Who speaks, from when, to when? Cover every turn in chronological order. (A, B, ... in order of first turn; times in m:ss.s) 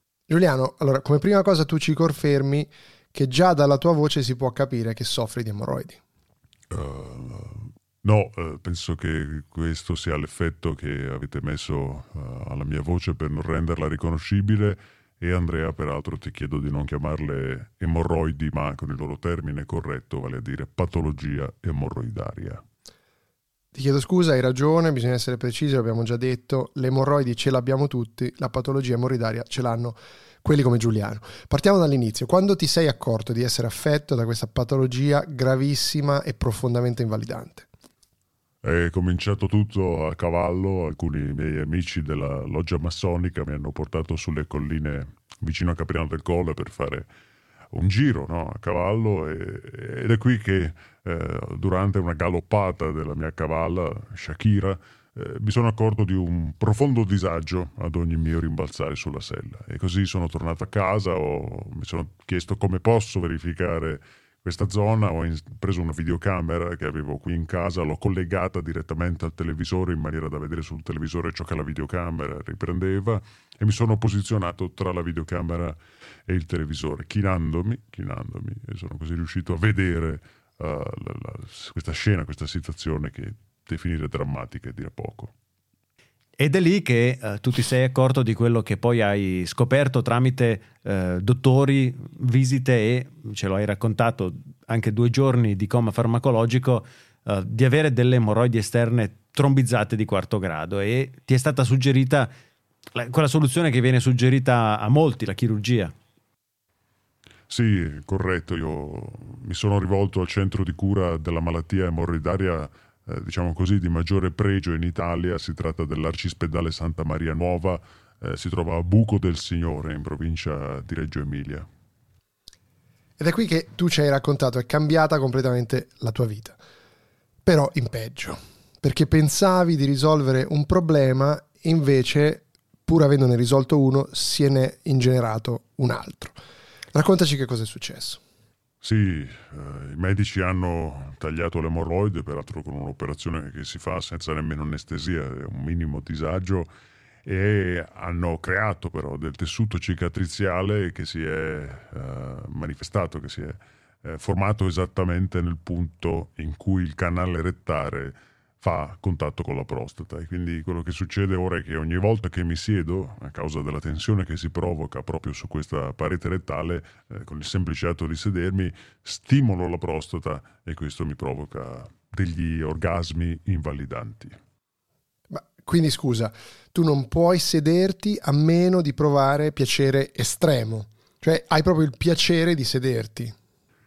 0:00.3-0:06.0 A
0:06.7-0:22.6 B
0:23.7-0:37.7 A
0:38.6-0:47.1 B
0:47.7-1:25.3 B
1:26.4-1:42.3 C
1:42.9-1:45.9 C
1:47.5-2:01.6 B
2:03.2-2:06.6 A
2:07.4-2:16.4 A
2:16.9-2:18.2 A
2:18.8-2:26.7 B
2:27.2-2:54.4 B
2:55.3-3:03.3 A